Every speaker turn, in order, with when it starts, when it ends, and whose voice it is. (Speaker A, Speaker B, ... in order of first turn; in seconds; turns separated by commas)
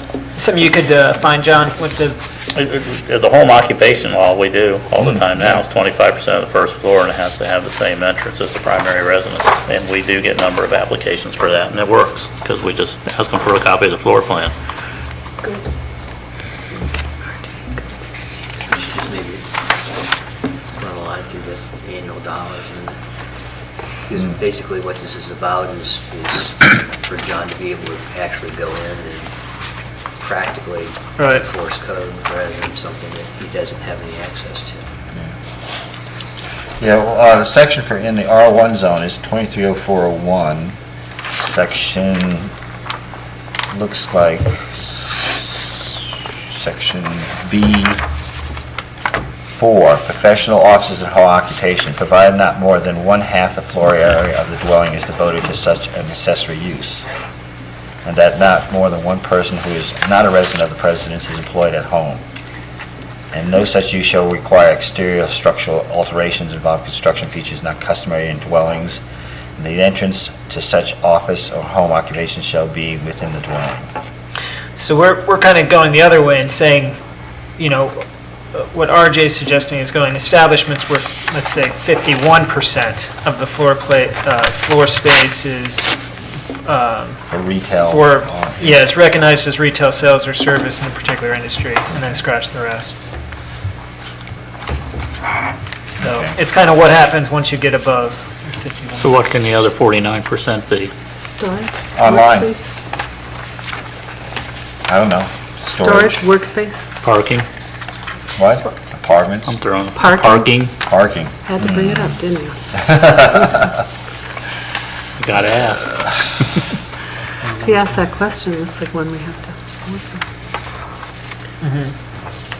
Speaker A: 0.3-2.3, Speaker B: 2.5-14.5, Speaker C: 5.0-5.3, Speaker D: 17.4-17.8, Speaker E: 18.7-19.4, Speaker E: 20.8-23.0, Speaker E: 24.1-29.3, Speaker E: 30.2-34.9, Speaker A: 31.2-31.5, Speaker C: 36.8-40.8, Speaker C: 41.3-42.5, Speaker C: 43.7-48.0, Speaker C: 49.5-57.0, Speaker C: 58.0-62.2, Speaker C: 63.3-69.0, Speaker C: 69.6-73.9, Speaker A: 74.8-77.0, Speaker A: 77.6-86.0, Speaker A: 86.6-87.2, Speaker C: 87.3-88.8, Speaker A: 87.9-93.0, Speaker C: 91.9-92.2, Speaker C: 96.0-96.4, Speaker A: 96.0-99.2, Speaker B: 99.0-100.9, Speaker D: 101.2-102.7, Speaker C: 102.0-102.5, Speaker C: 104.9-106.2, Speaker D: 105.7-106.8, Speaker B: 107.0-107.5, Speaker C: 108.4-109.6, Speaker B: 109.5-110.7, Speaker D: 109.9-110.7, Speaker C: 110.8-112.2, Speaker D: 111.5-112.8, Speaker C: 112.8-113.7, Speaker B: 115.2-116.0, Speaker D: 117.6-120.2, Speaker A: 121.6-121.9